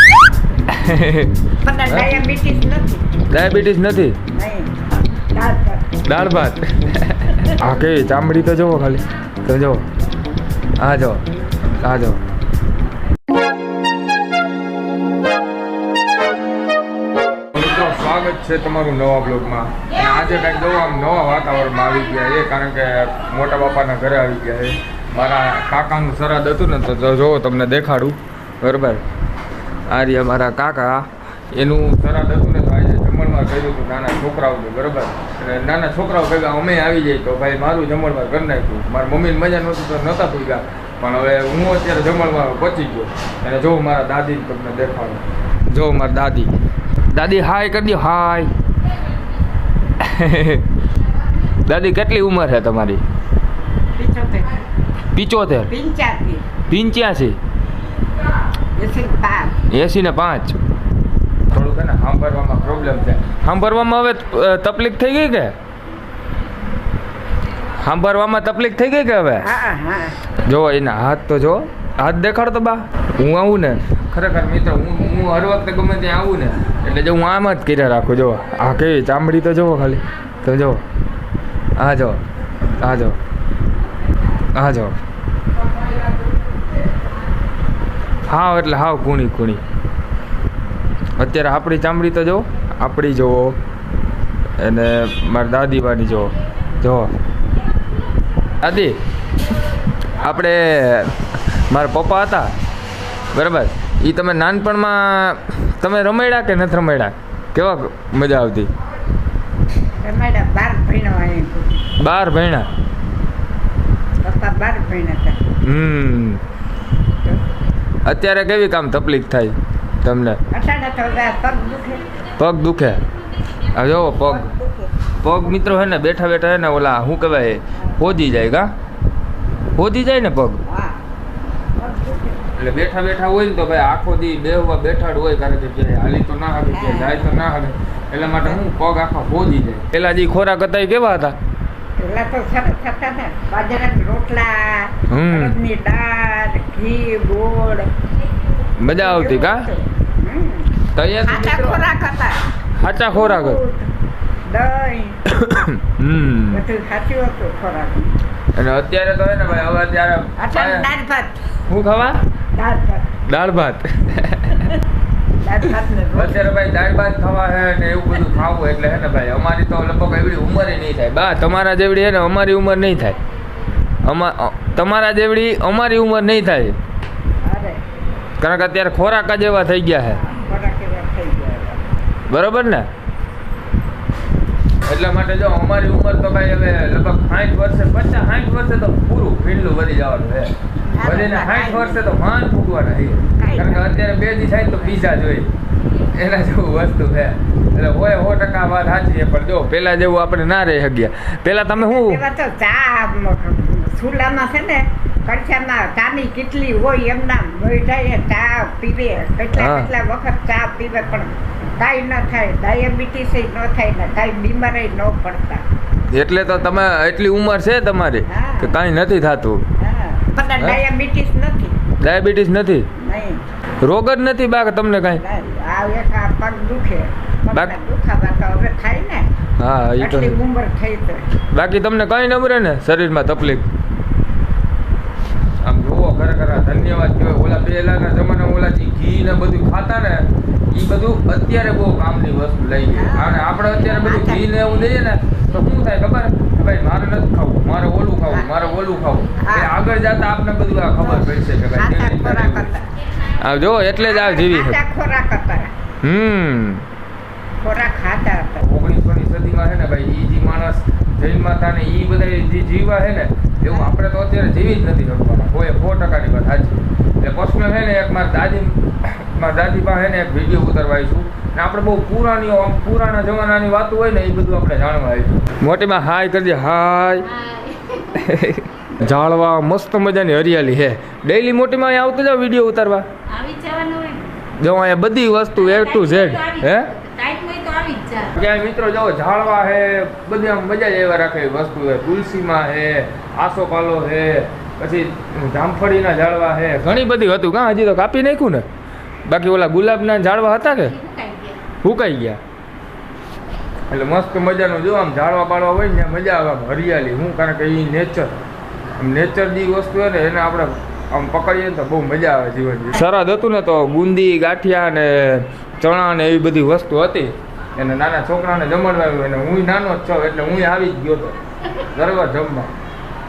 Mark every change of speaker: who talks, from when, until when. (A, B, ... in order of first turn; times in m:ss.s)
0:00.7-0:02.1 A
0:01.6-0:03.0 B
0:03.3-0:04.2 A
0:04.3-0:04.7 B
0:05.3-0:06.0 B
0:06.0-0:09.8 A
0:10.8-0:11.2 A
0:11.8-0:12.2 A
0:17.5-0:29.0 A
0:29.9-0:46.5 A
0:47.1-0:48.5 A
0:50.0-0:50.7 A
0:51.6-0:53.0 A
0:53.9-0:54.6 B
0:55.1-0:55.7 A
0:55.7-0:56.5 B
0:56.7-0:57.4 A
0:58.8-0:59.6 B
0:59.7-1:00.6 A
1:01.5-1:05.5 A
1:07.8-1:09.5 A
1:09.4-1:10.2 B
1:10.4-1:20.8 A
1:21.8-1:22.2 A
1:22.8-1:23.2 A
1:24.5-1:25.0 A
1:28.3-1:29.6 A
1:31.2-1:33.6 A
1:34.6-1:37.1 A
1:38.6-1:39.0 A
1:40.2-1:42.5 A
1:43.3-1:48.7 A
1:50.0-1:51.8 B
1:52.0-1:52.7 A
1:54.2-1:55.4 B
1:55.6-1:56.4 A
1:58.0-2:00.4 A
2:00.5-2:02.0 B
2:02.4-2:03.0 A
2:03.7-2:04.5 A
2:04.2-2:04.9 B
2:05.2-2:08.7 A
2:07.7-2:08.0 B
2:09.8-2:10.6 A
2:10.6-2:11.0 B
2:11.8-2:12.4 B
2:12.6-2:21.4 A
2:16.7-2:17.4 B
2:22.0-2:27.9 B
2:25.1-2:25.6 A
2:28.8-2:29.7 A
2:28.9-2:30.7 B
2:30.9-2:31.8 A
2:31.2-2:32.4 B
2:32.8-2:33.6 A
2:33.1-2:33.9 B
2:34.5-2:35.2 B
2:35.3-2:36.6 A
2:36.5-2:38.1 B
2:38.6-2:40.9 A
2:40.4-2:41.4 B
2:41.7-2:42.2 A
2:42.6-2:43.1 B
2:43.2-2:44.7 A
2:45.4-2:46.4 B
2:46.2-2:53.2 A
2:54.0-2:56.8 A
2:57.4-2:57.8 B
2:58.4-3:00.2 A
3:00.1-3:01.9 B
3:02.3-3:02.9 A
3:04.8-3:22.2 A
3:10.9-3:12.1 B
3:13.4-3:13.9 B
3:21.7-3:35.6 B
3:29.5-3:29.9 A
3:36.1-3:39.6 A
3:38.3-3:38.7 B
3:39.8-3:41.8 B
3:42.0-3:42.9 A
3:43.0-3:43.4 B
3:43.8-3:45.2 A
3:45.2-3:49.3 B
3:49.6-3:50.4 A
3:50.0-3:51.2 B
3:51.5-3:53.7 A
3:55.6-4:14.8 A
4:02.9-4:04.5 B
4:09.4-4:09.7 B
4:11.0-4:12.9 B
4:14.0-4:15.7 B
4:16.0-4:16.8 A
4:17.6-4:18.7 B
4:18.6-4:37.3 A
4:37.2-4:38.3 C
4:38.1-4:43.1 A
4:43.3-4:44.3 C
4:44.6-4:46.9 A
4:45.6-4:48.3 C
4:48.3-4:58.6 A
4:59.3-5:01.0 A
5:00.8-5:01.6 C
5:01.8-5:02.4 A
5:03.9-5:08.3 A
5:09.0-5:22.7 A